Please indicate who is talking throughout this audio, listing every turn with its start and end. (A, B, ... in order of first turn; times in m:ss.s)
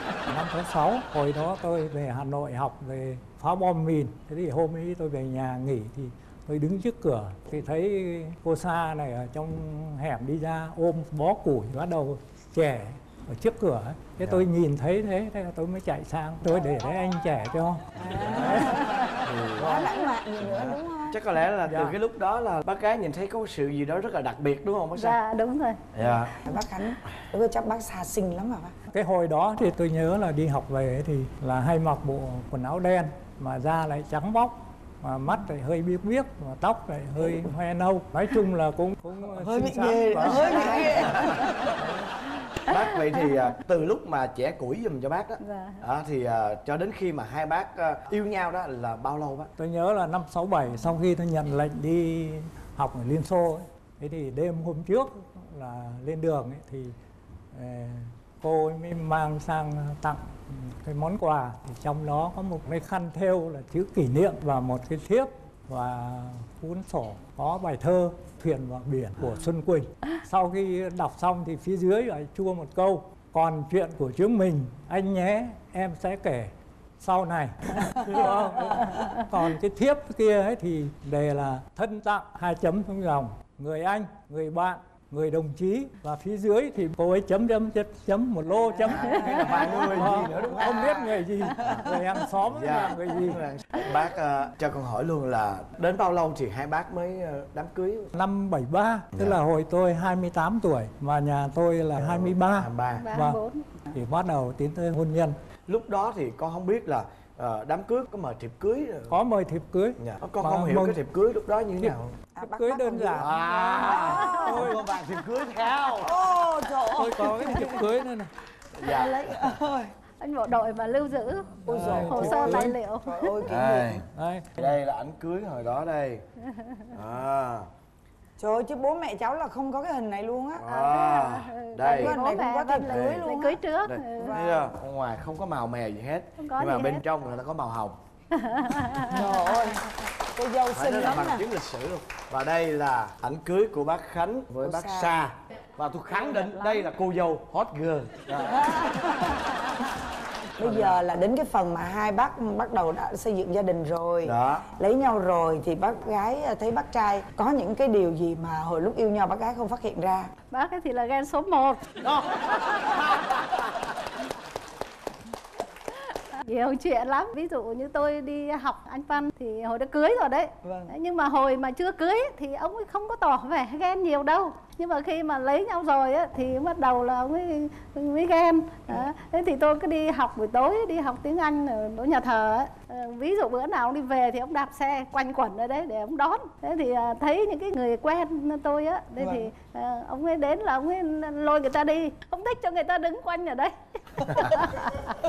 0:00.3-0:19.0 A
0:18.0-0:21.2 B
0:18.1-0:25.2 C
0:21.7-0:22.0 A
0:24.9-0:25.8 D
0:25.9-0:26.3 C
0:26.4-0:28.7 B
0:28.9-0:40.8 A
0:39.3-0:41.8 B
0:40.2-0:41.9 C
0:42.6-0:49.5 C
0:45.4-0:45.8 D
0:49.6-0:56.9 A
0:57.5-1:33.4 A
1:18.8-1:19.2 D
1:28.5-1:31.9 B
1:28.8-1:30.9 C
1:32.4-1:38.1 C
1:38.1-1:43.4 A
1:42.0-1:43.0 C
1:42.9-1:43.6 D
1:43.9-1:45.3 A
1:45.7-1:49.2 C
1:49.1-1:51.0 A
1:50.0-1:52.1 C
1:51.8-1:54.9 A
1:52.4-1:54.8 B
1:53.2-1:56.1 C
1:54.2-1:54.4 D
1:56.0-1:57.9 B
1:56.9-1:58.3 A
1:58.7-1:59.2 C
1:58.8-1:59.9 B
2:00.2-2:03.4 D
2:01.6-2:02.8 A
2:01.6-2:04.0 B
2:03.4-2:06.2 C
2:04.1-2:04.7 A
2:06.5-2:06.8 D
2:06.9-2:07.7 C
2:08.4-2:10.6 B
2:10.6-2:12.2 C
2:10.7-2:14.4 D
2:11.9-2:13.6 B
2:12.8-2:13.3 C
2:13.8-2:18.0 C
2:14.2-2:14.7 B
2:16.4-2:17.0 D
2:18.3-2:19.2 D
2:19.0-2:21.4 B
2:20.7-2:28.8 C
2:24.6-2:25.2 B
2:26.1-2:26.9 B
2:28.4-2:29.6 B
2:30.6-2:40.3 B
2:30.6-2:31.0 C
2:34.2-2:34.7 C
2:40.5-2:42.0 D
2:42.3-2:43.2 C
2:46.1-3:15.1 D
2:50.6-2:50.9 B
3:09.2-3:09.5 B